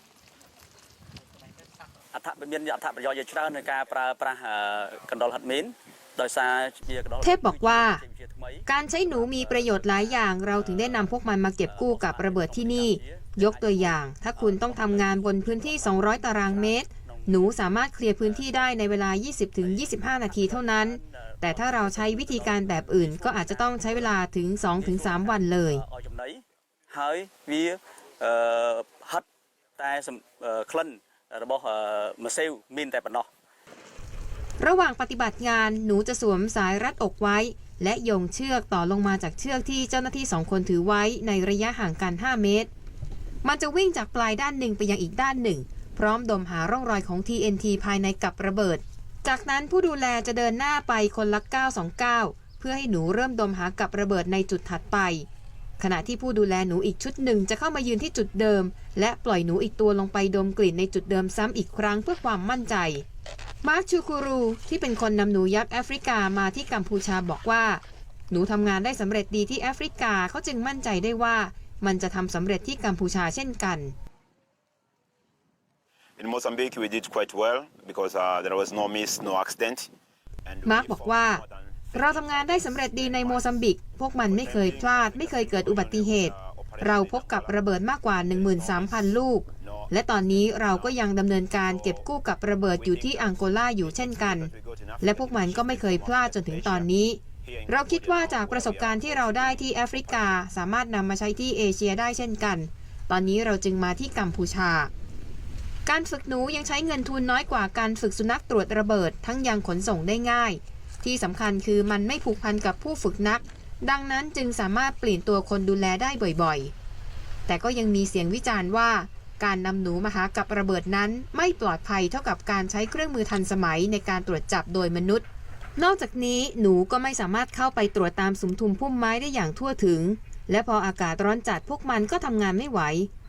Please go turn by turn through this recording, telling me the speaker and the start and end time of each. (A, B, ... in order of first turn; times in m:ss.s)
0:02.1-0:24.2 A
0:07.2-0:08.0 B
0:08.6-0:25.8 B
0:24.7-0:29.2 A
0:29.8-0:33.3 A
0:34.6-0:42.7 B
0:43.4-0:55.2 B
0:55.8-1:03.0 B
1:03.6-1:13.9 B
1:16.2-1:19.9 C
1:20.4-1:23.7 C
1:20.6-1:44.9 B
1:24.2-1:40.4 C
1:45.8-1:56.7 B
1:57.5-2:05.2 B
2:05.8-2:13.1 B